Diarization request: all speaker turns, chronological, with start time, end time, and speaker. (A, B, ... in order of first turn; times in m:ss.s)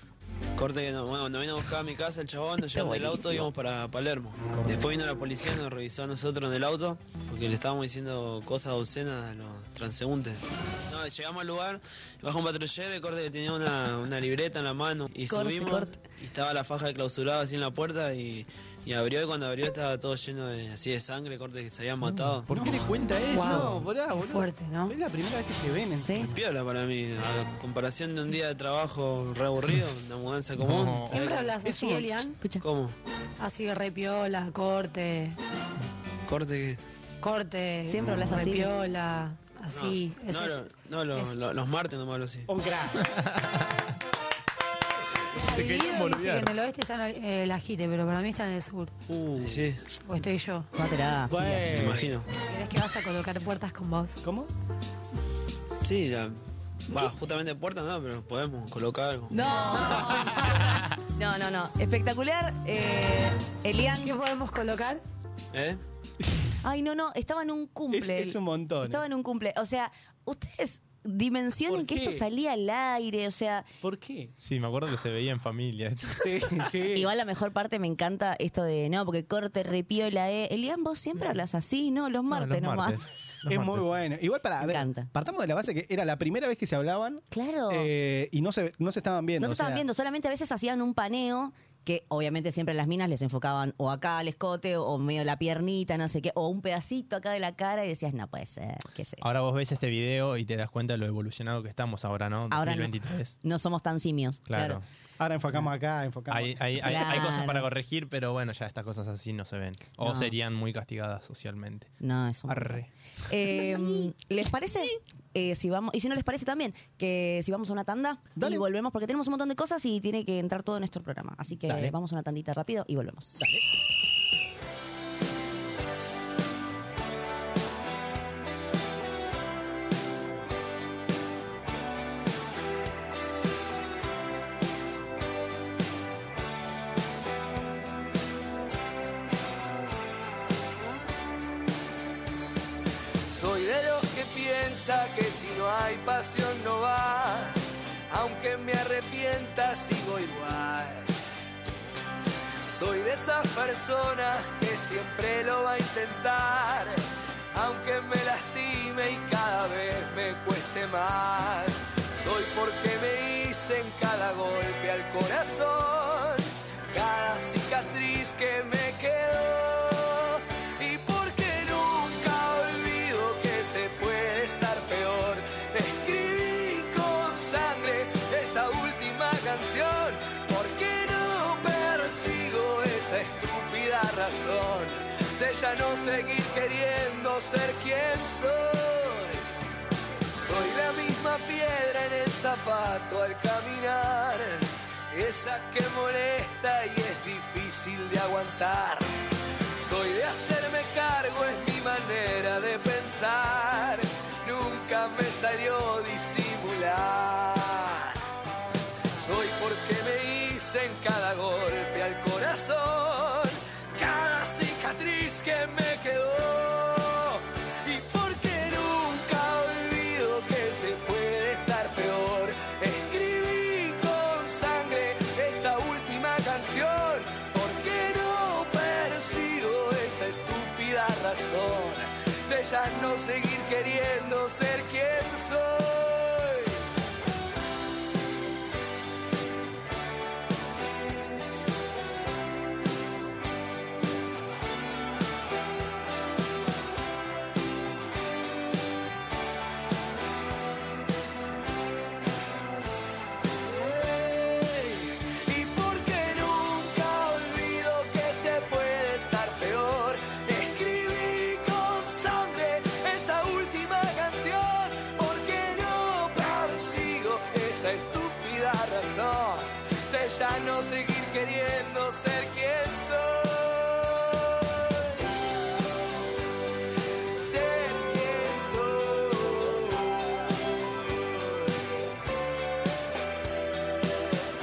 0:00.6-0:22.5 A
0:02.7-0:03.5 B
0:15.3-0:16.0 B
0:22.1-0:23.8 C
0:22.5-0:26.3 D
0:23.3-0:24.9 E
0:26.0-0:26.3 B
0:26.2-0:31.5 A
0:30.6-0:31.2 C
0:31.1-0:32.4 E
0:31.7-0:32.6 B
0:32.6-0:33.0 A
0:33.4-0:35.4 E
0:36.3-0:36.8 A
0:37.2-0:41.4 E
0:37.9-0:38.7 B
0:39.7-0:42.5 A
0:42.5-0:43.1 D
0:43.0-0:43.7 C
0:45.4-0:48.9 E
0:45.4-0:46.5 C
0:49.1-0:49.7 D
0:49.4-0:49.8 A
0:50.0-0:50.7 E
0:50.8-0:51.8 B
0:51.3-0:52.2 D
0:51.8-0:52.3 A
0:52.5-0:54.2 E
0:54.2-0:54.5 D
0:55.8-0:56.4 A
0:56.9-0:59.4 A
0:59.3-1:04.1 B
1:04.0-1:05.0 E
1:05.5-1:05.8 A
1:06.6-1:13.7 B
1:07.9-1:09.1 D
1:11.7-1:12.2 D
1:13.8-1:14.3 D
1:14.4-1:16.7 C
1:16.2-1:17.1 D
1:16.9-1:23.0 B
1:22.3-1:24.0 C
1:23.4-1:29.9 D
1:24.6-1:25.1 B
1:27.3-1:27.9 B
1:29.4-1:39.2 B
1:39.2-1:43.4 C
1:42.5-1:44.8 B
1:44.5-1:44.8 C
1:45.2-1:47.3 D
1:46.3-1:52.0 C
1:46.8-1:47.7 B
1:50.0-1:50.3 B
1:52.0-2:03.4 B
1:52.5-1:52.9 C
1:53.5-1:54.1 D
1:58.4-1:58.6 D
2:01.7-2:02.0 D
2:03.4-2:03.6 D
2:23.3-2:31.1 F
2:32.6-2:37.0 F
2:37.5-3:09.4 F
3:10.3-3:19.1 F
3:19.8-3:28.2 F
3:29.2-3:56.8 F
4:13.6-4:35.3 F
4:37.4-4:41.8 F